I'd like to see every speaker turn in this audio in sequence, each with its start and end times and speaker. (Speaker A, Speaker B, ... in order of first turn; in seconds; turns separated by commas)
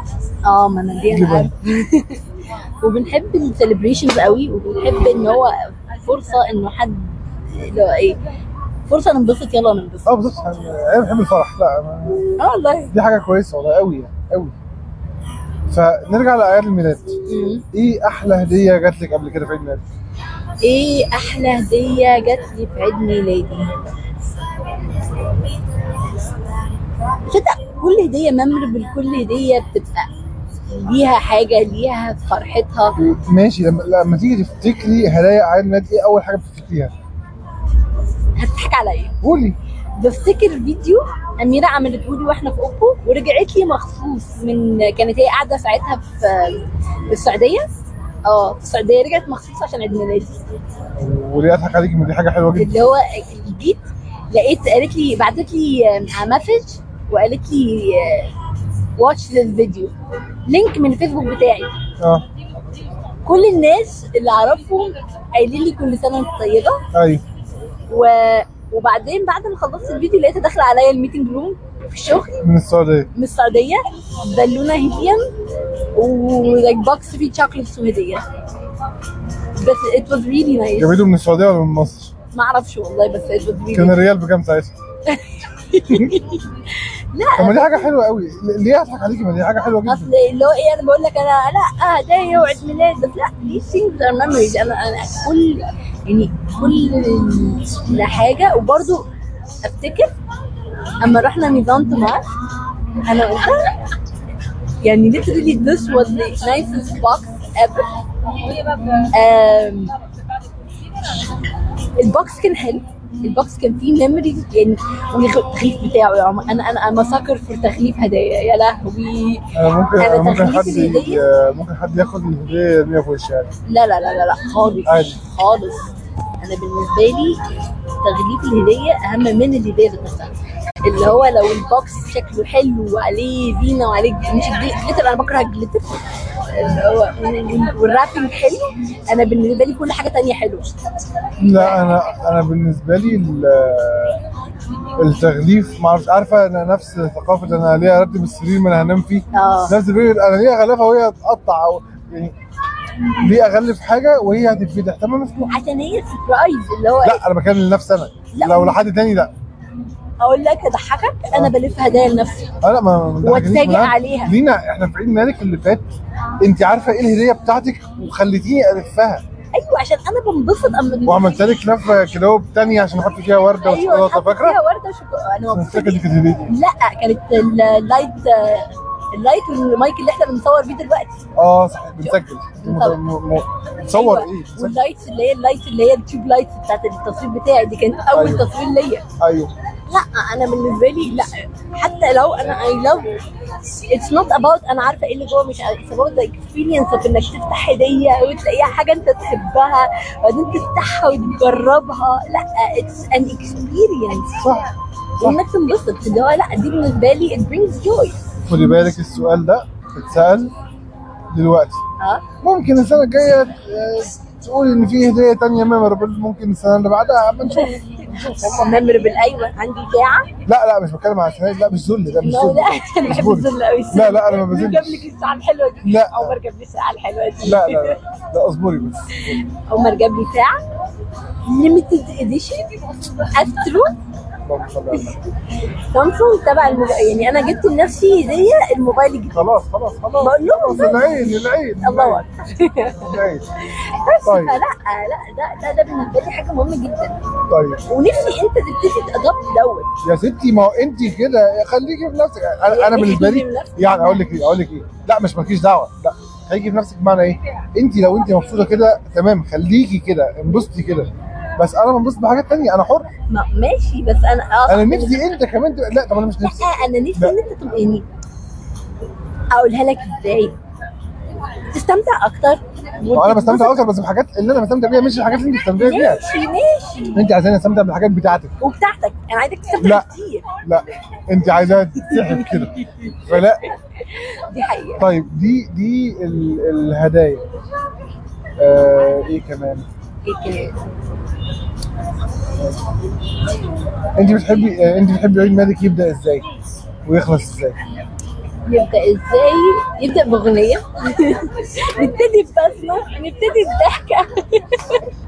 Speaker A: 0.4-2.2, Speaker B: 1.1-1.5, Speaker A: 2.8-8.2, Speaker A: 8.9-10.1, Speaker B: 10.1-12.3, Speaker A: 12.4-12.9, Speaker B: 12.9-14.5, Speaker B: 15.7-19.8, Speaker A: 17.3-17.6, Speaker A: 20.6-23.8, Speaker A: 27.2-30.1, Speaker A: 30.7-33.0, Speaker B: 33.0-36.9, Speaker A: 38.4-39.1, Speaker B: 39.2-39.6, Speaker A: 40.0-47.7, Speaker A: 48.3-50.4, Speaker B: 51.0-52.8, Speaker A: 52.5-58.3, Speaker A: 59.0-59.9, Speaker A: 60.5-61.7, Speaker B: 62.0-62.2, Speaker A: 63.2-66.8, Speaker B: 66.9-67.2, Speaker A: 67.9-72.4, Speaker B: 72.4-73.1, Speaker A: 73.1-75.3, Speaker A: 75.9-78.2, Speaker A: 79.5-80.9, Speaker B: 80.8-82.1, Speaker A: 82.3-84.0, Speaker B: 83.7-84.8, Speaker A: 85.0-87.9, Speaker B: 85.9-86.2, Speaker B: 87.3-90.1, Speaker A: 89.8-99.0, Speaker A: 99.6-100.1, Speaker A: 101.0-102.2, Speaker A: 103.0-103.8, Speaker A: 104.8-107.9, Speaker A: 109.0-109.9, Speaker A: 112.0-121.2, Speaker B: 119.5-123.5, Speaker A: 123.7-127.4, Speaker B: 124.8-125.2, Speaker A: 128.0-136.0, Speaker A: 136.5-140.7, Speaker B: 141.4-144.2, Speaker B: 145.0-152.3, Speaker A: 149.3-149.8, Speaker B: 153.1-155.5, Speaker A: 155.5-157.2, Speaker B: 157.0-159.3, Speaker A: 158.3-158.8, Speaker A: 160.2-162.5, Speaker B: 162.6-165.8, Speaker A: 163.2-164.3, Speaker B: 166.4-169.2, Speaker A: 169.5-171.3, Speaker B: 171.1-174.6, Speaker A: 173.6-181.2, Speaker B: 175.5-176.5, Speaker B: 181.3-184.8, Speaker A: 182.0-183.0, Speaker A: 183.9-189.0, Speaker B: 188.1-188.5, Speaker B: 189.2-189.5, Speaker A: 189.9-193.2, Speaker A: 193.9-204.4, Speaker B: 204.3-204.6, Speaker A: 205.2-208.2, Speaker B: 208.4-210.5, Speaker B: 211.3-211.8, Speaker A: 212.0-212.2, Speaker B: 212.4-218.7, Speaker A: 218.5-220.3, Speaker B: 220.4-225.1, Speaker A: 222.2-228.0, Speaker B: 225.8-226.4, Speaker B: 227.4-229.4, Speaker A: 229.2-230.6, Speaker A: 231.5-234.0, Speaker B: 234.4-235.2, Speaker A: 235.9-239.4, Speaker B: 239.3-242.2, Speaker A: 240.2-243.2, Speaker B: 243.0-243.4, Speaker A: 243.7-247.2, Speaker B: 244.2-244.6, Speaker B: 247.5-247.8, Speaker A: 247.8-249.9, Speaker B: 250.0-263.1, Speaker A: 252.7-254.3, Speaker A: 263.3-265.2, Speaker B: 264.7-267.4, Speaker A: 266.4-268.0, Speaker A: 269.5-270.6, Speaker A: 271.7-273.8, Speaker B: 273.1-276.2, Speaker A: 275.8-277.3, Speaker B: 277.1-278.5, Speaker A: 278.6-280.5, Speaker B: 279.8-280.1, Speaker B: 280.6-283.6, Speaker A: 282.0-285.1, Speaker B: 285.0-287.4, Speaker B: 288.6-289.9, Speaker A: 290.2-290.8, Speaker B: 294.2-296.4, Speaker B: 297.1-297.8, Speaker A: 298.7-305.1